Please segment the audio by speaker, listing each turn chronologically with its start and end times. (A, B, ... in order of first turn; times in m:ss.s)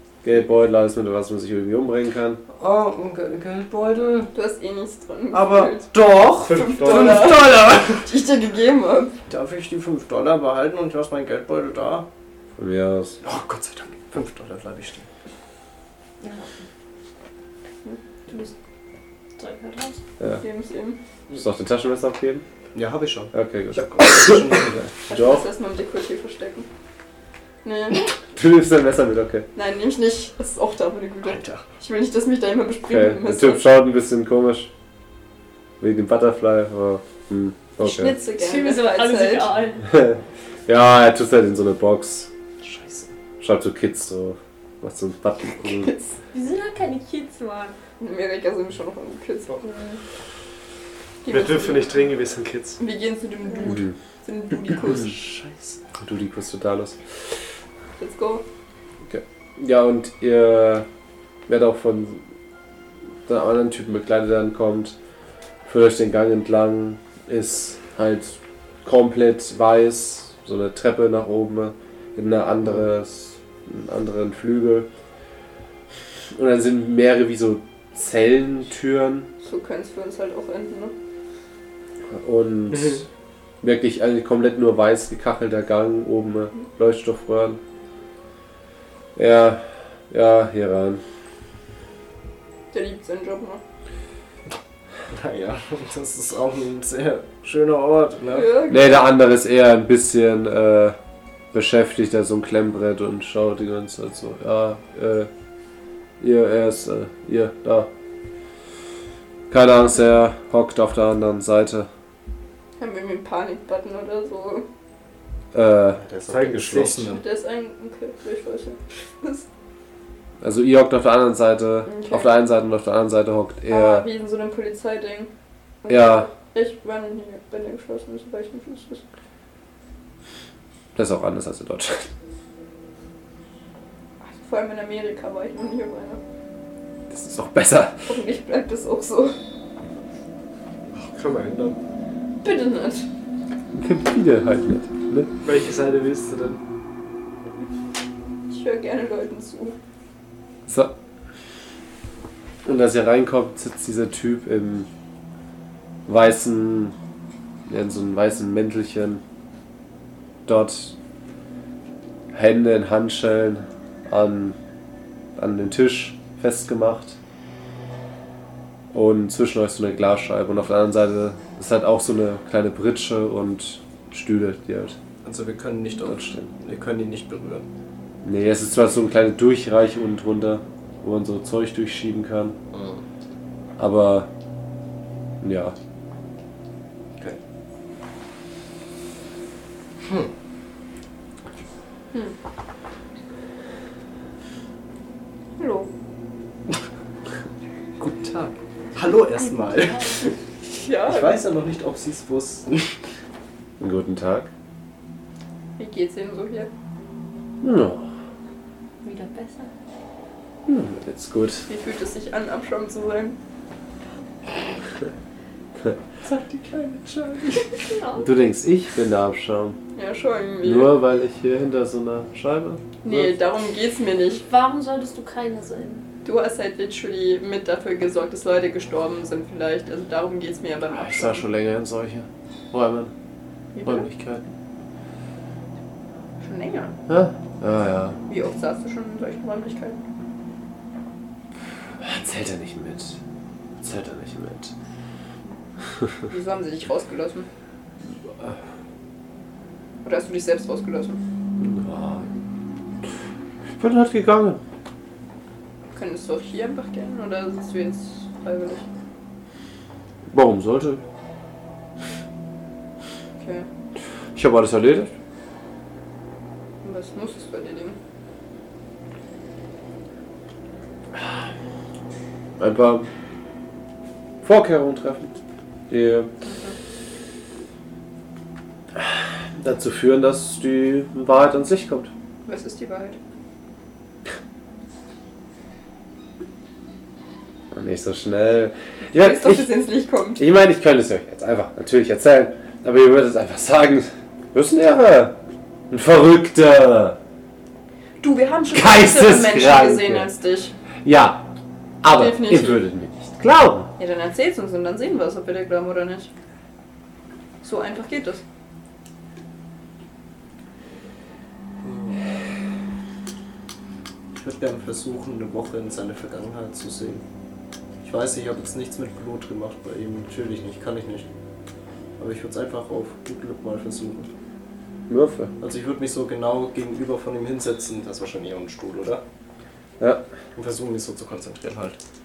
0:00.2-0:02.4 A
0:02.5-0:04.3 B
0:04.3-0:05.9 C
0:05.3-0:08.1 B
0:06.5-0:07.3 D
0:06.5-0:09.1 C
0:09.3-0:12.1 B
0:12.6-0:13.2 A
0:13.2-0:15.1 B
0:16.2-0:16.5 E
0:19.4-0:20.0 E
0:20.4-0:21.0 C
0:21.3-0:22.4 A
0:22.7-0:24.9 B
0:23.3-0:25.4 A
0:25.1-0:26.7 C
0:27.6-0:28.0 C
0:28.3-0:29.5 A
0:29.5-0:33.6 C
0:31.2-0:31.6 B
0:32.9-0:34.7 A
0:35.8-0:38.2 A
0:37.8-0:39.5 C
0:38.4-0:39.8 E
0:39.8-0:42.3 A
0:42.6-0:43.1 B
0:43.4-0:45.9 A
0:45.7-0:46.1 C
0:46.3-0:47.8 E
0:48.0-0:50.0 C
0:51.2-0:52.0 C
0:51.3-0:52.8 D
0:52.8-0:55.2 C
0:53.6-0:53.9 A
0:54.9-0:55.8 B
0:56.0-0:57.0 A
0:58.0-0:58.4 C
0:59.0-1:00.8 A
1:01.5-1:02.2 A
1:03.2-1:04.9 A
1:05.6-1:14.9 A
1:16.3-1:19.3 A
1:19.4-1:20.9 C
1:22.1-1:23.0 A
1:23.6-1:27.6 A
1:29.2-1:31.0 A
1:32.7-1:33.6 C
1:35.1-1:38.5 B
1:38.3-1:39.1 C
1:38.7-1:41.0 A
1:41.5-1:45.3 A
1:46.2-1:47.9 A
1:49.5-1:51.9 A
1:52.8-1:54.6 C
1:55.5-1:56.0 A
1:55.9-1:57.2 B
1:56.3-1:57.1 D
1:57.1-1:59.4 C
2:00.4-2:04.1 A
2:01.8-2:02.3 C
2:03.7-2:05.3 C
2:05.8-2:09.0 C
2:05.9-2:06.3 A
2:10.9-2:12.1 A
2:14.2-2:16.2 C
2:17.1-2:18.1 A
2:18.1-2:19.3 C
2:21.0-2:21.8 D
2:22.4-2:23.0 C
2:23.7-2:25.3 A
2:25.4-2:26.6 D
2:28.5-2:29.8 C
2:30.7-2:30.9 A
2:32.6-2:34.9 A
2:36.1-2:36.9 A
2:37.7-2:39.2 A
2:40.4-2:40.9 A
2:42.3-2:44.6 A
2:45.4-2:47.2 A
2:48.9-2:55.0 A
2:55.2-2:57.6 B
2:56.1-2:56.5 A
2:58.2-3:02.6 A
3:02.7-3:03.0 B
3:03.8-3:04.3 A
3:05.4-3:05.7 A
3:10.0-3:10.3 B
3:15.6-3:15.9 C
3:18.0-3:20.3 B
3:19.5-3:20.3 E
3:20.7-3:21.4 C
3:21.0-3:23.0 B
3:23.8-3:24.5 A
3:25.8-3:26.7 C
3:27.6-3:28.1 A
3:29.0-3:29.7 E
3:30.6-3:31.7 A
3:31.7-3:33.4 C
3:36.2-3:37.6 B
3:37.8-3:38.3 E
3:38.2-3:39.8 A
3:39.9-3:40.9 C
3:40.6-3:43.4 A
3:43.0-3:44.4 C
3:44.3-3:46.0 E
3:46.2-3:51.4 C
3:50.9-3:53.1 A
3:53.7-3:54.1 C
3:53.8-3:54.4 A
3:56.4-3:56.9 C
3:57.1-3:58.2 A
3:58.3-4:00.0 C
4:02.0-4:03.2 A
4:03.8-4:04.7 A
4:06.3-4:07.5 C
4:10.0-4:11.2 C
4:11.6-4:12.3 A
4:13.8-4:14.6 A
4:15.9-4:18.8 C
4:20.3-4:21.0 A
4:23.4-4:23.7 C
4:24.4-4:25.1 A
4:26.8-4:28.0 C
4:32.6-4:33.1 A
4:34.4-4:35.3 A
4:35.9-4:36.3 A
4:36.4-4:36.7 C
4:39.0-4:42.1 A
4:42.4-4:43.2 C
4:47.7-4:49.7 A
4:49.0-4:50.4 C
4:50.4-4:55.4 A
4:55.9-4:57.2 A
4:58.2-5:00.7 C
4:58.7-5:00.3 A
5:01.0-5:01.4 A
5:02.0-5:03.9 A
5:02.1-5:02.8 C
5:04.0-5:06.3 C
5:07.6-5:08.4 C
5:11.8-5:12.2 B
5:14.3-5:17.2 B
5:18.0-5:21.3 B
5:22.2-5:24.3 B
5:25.1-5:25.5 A
5:25.6-5:29.2 B
5:30.6-5:32.0 B